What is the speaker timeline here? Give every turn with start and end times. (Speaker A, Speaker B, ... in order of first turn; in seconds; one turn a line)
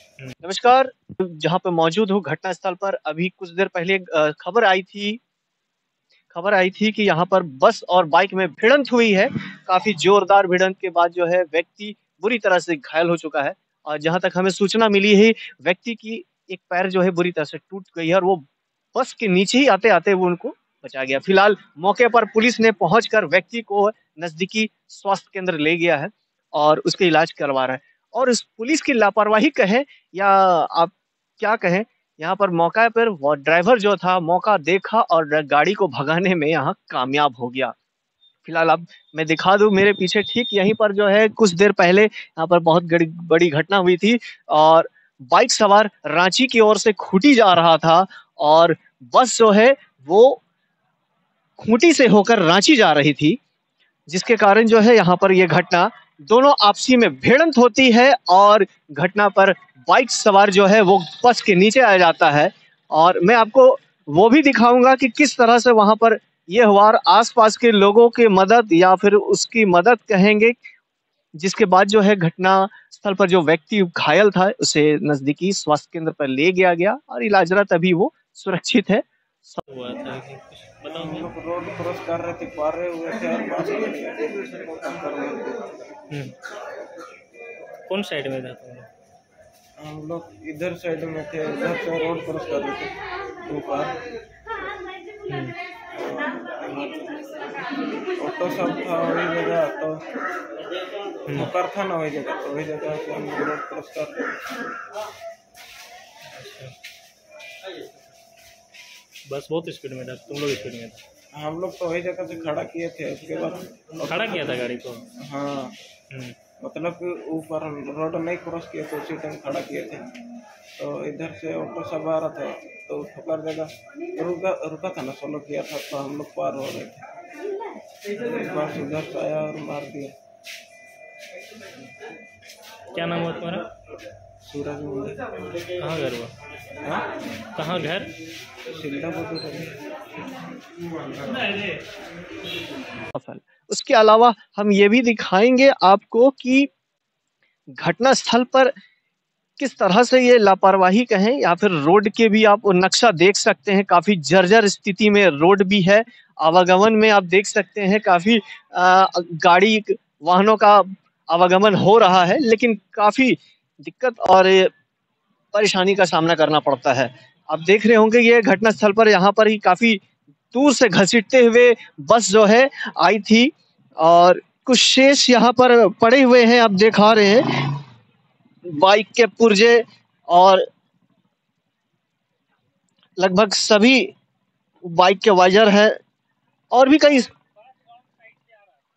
Speaker A: 0.4-5.2
Speaker A: 6.3-18.4
Speaker A: 18.9-37.7
Speaker A: 38.4-50.4
Speaker A: 51.6-53.4
Speaker A: 54.1-70.6
Speaker A: 71.4-79.6
Speaker B: 79.6-81.3
Speaker C: 80.9-85.8
Speaker B: 87.9-88.9
Speaker C: 89.8-92.9
Speaker C: 93.5-94.0
Speaker B: 95.3-95.5
Speaker C: 95.9-97.2
Speaker C: 98.2-100.0
Speaker C: 101.3-104.5
Speaker B: 106.3-106.7
Speaker B: 109.3-111.0
Speaker C: 111.3-114.5
Speaker B: 114.1-115.0
Speaker C: 115.2-115.8
Speaker C: 116.6-120.1
Speaker C: 120.8-127.0
Speaker C: 128.1-130.1
Speaker B: 132.9-133.7
Speaker C: 134.4-135.2
Speaker B: 135.8-136.3
Speaker B: 137.6-138.1
Speaker C: 138.6-139.8
Speaker C: 140.8-141.8
Speaker A: 143.1-146.7
Speaker A: 147.7-148.7
Speaker A: 149.6-164.7
Speaker A: 165.5-170.0
Speaker A: 170.5-177.8
Speaker A: 178.7-180.7
Speaker A: 183.2-184.1
Speaker A: 184.8-186.0
Speaker A: 186.7-187.3